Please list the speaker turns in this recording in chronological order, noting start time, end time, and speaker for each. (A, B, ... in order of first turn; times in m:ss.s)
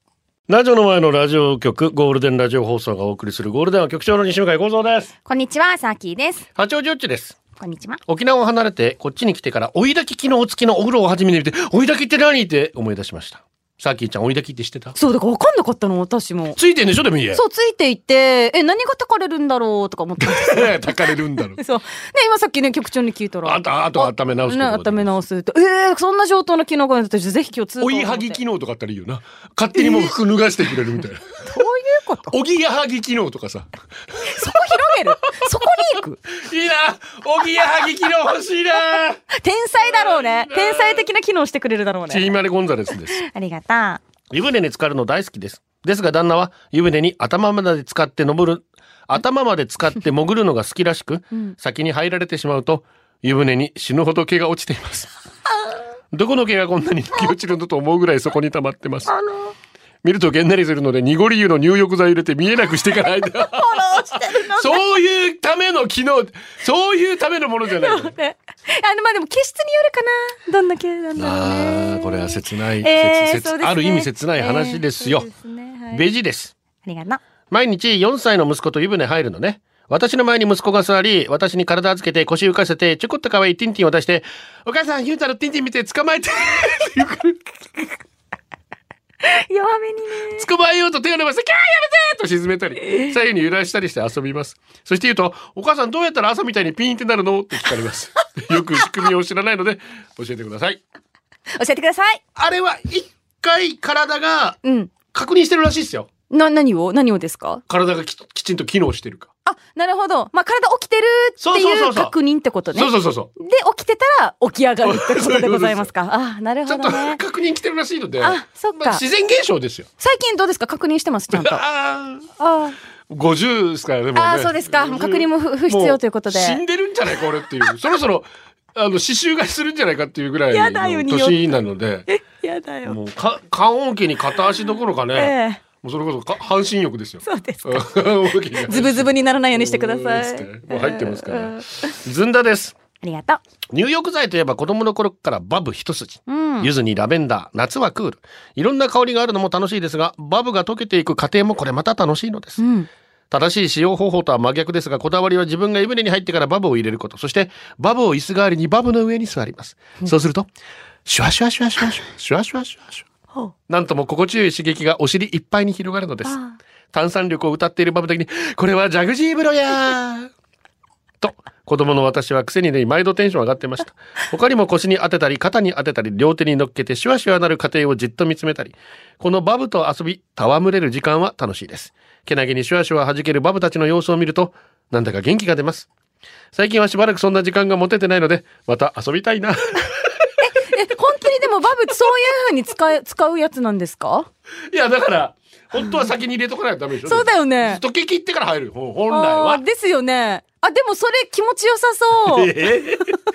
0:00.5-0:05.1 A
0:05.2-0:06.4 B
0:06.6-0:07.4 A
0:07.6-0:08.0 B
0:08.1-0:15.0 A
0:15.0-0:16.6 B
0:16.6-0:17.4 A
0:17.3-0:28.4 B
0:20.2-0:21.6 A
0:23.4-0:25.2 A
0:27.8-0:31.4 A
0:29.8-0:30.1 B
0:31.4-0:32.3 B
0:32.3-0:34.8 A
0:34.2-0:36.2 B
0:36.3-0:39.2 A
0:39.3-0:42.3 B
0:39.8-0:41.0 A
0:42.1-0:43.2 A
0:43.1-0:44.0 B
0:44.3-0:55.1 A
0:56.1-0:59.1 A
0:59.1-0:59.5 B
1:00.0-1:08.1 A
1:03.3-1:04.8 B
1:07.8-1:16.0 B
1:11.2-1:15.3 A
1:15.9-1:16.5 A
1:16.8-1:17.2 B
1:17.5-1:27.4 A
1:29.2-1:30.4 B
1:30.3-1:40.8 A
1:32.8-1:33.1 B
1:41.5-1:42.2 B
1:42.3-1:44.6 A
1:44.6-1:44.9 B
1:45.1-1:46.1 A
1:46.3-1:47.6 B
1:47.7-1:49.3 A
1:49.4-1:57.2 B
1:51.4-1:52.1 A
1:52.7-1:53.3 A
1:54.8-1:55.9 A
1:56.6-1:59.9 A
1:58.2-1:59.0 B
2:00.0-2:01.6 B
2:01.3-2:02.3 A
2:02.4-2:02.8 B
2:03.1-2:12.1 A
2:04.1-2:06.6 B
2:10.5-2:11.4 B
2:12.1-2:13.0 B
2:12.8-2:22.8 A
2:15.1-2:15.6 B
2:17.2-2:18.0 B
2:18.6-2:22.0 B
2:23.0-2:23.4 B
2:23.7-2:32.6 A
2:26.3-2:26.7 B
2:32.6-2:32.9 B
2:33.3-2:40.5 A
2:41.0-2:43.0 A
2:43.7-2:46.4 A
2:46.2-2:46.6 B
2:46.9-2:50.3 A
2:51.2-3:05.9 A
3:06.5-3:10.3 A
3:10.4-3:14.3 B
3:14.7-3:19.6 A
3:17.0-3:17.8 B
3:19.1-3:22.6 B
3:22.2-3:23.2 A